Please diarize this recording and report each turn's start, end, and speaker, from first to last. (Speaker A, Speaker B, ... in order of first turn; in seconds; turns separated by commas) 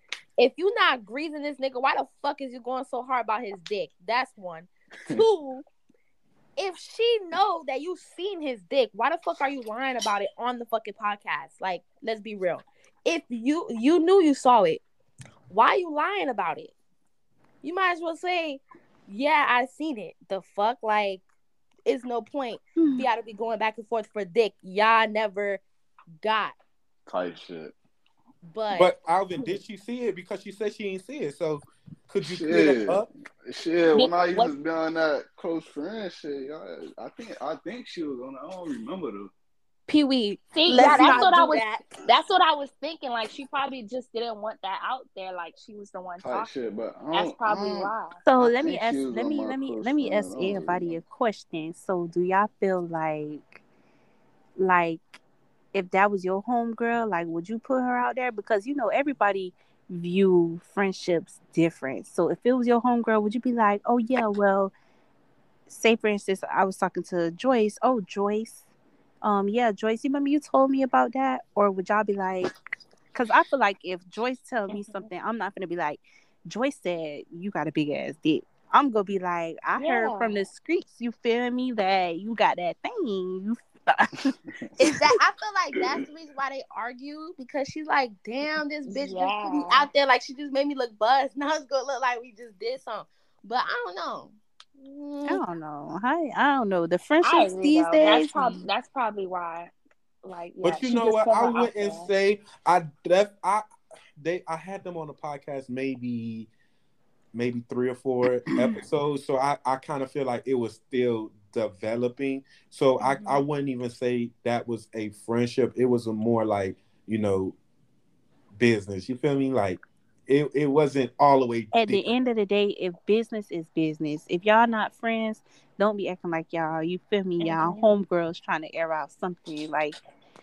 Speaker A: 0.4-5.6, Speaker A: 6.5-14.8, Speaker A: 15.5-16.7, Speaker A: 17.6-21.2, Speaker A: 21.8-25.6, Speaker B: 22.8-23.1, Speaker A: 26.2-26.6, Speaker C: 27.1-27.7, Speaker A: 28.5-28.9, Speaker D: 28.7-33.1, Speaker C: 32.2-39.3, Speaker E: 33.9-34.5, Speaker B: 39.9-41.3, Speaker A: 39.9-41.9, Speaker E: 40.5-46.5, Speaker C: 46.2-51.0, Speaker E: 47.1-48.2, Speaker B: 48.2-53.6, Speaker B: 54.6-55.2, Speaker B: 55.7-64.7, Speaker B: 65.7-68.6, Speaker B: 69.2-72.5, Speaker B: 73.1-84.3, Speaker E: 79.8-80.5, Speaker C: 84.5-84.8, Speaker A: 84.8-95.4, Speaker E: 88.9-89.9, Speaker B: 95.3-98.7, Speaker E: 97.2-99.7, Speaker E: 100.2-102.1, Speaker D: 100.6-103.7, Speaker D: 104.2-106.5, Speaker D: 107.3-117.5, Speaker E: 113.0-113.3, Speaker D: 118.5-122.1, Speaker B: 121.7-130.0, Speaker E: 127.4-128.0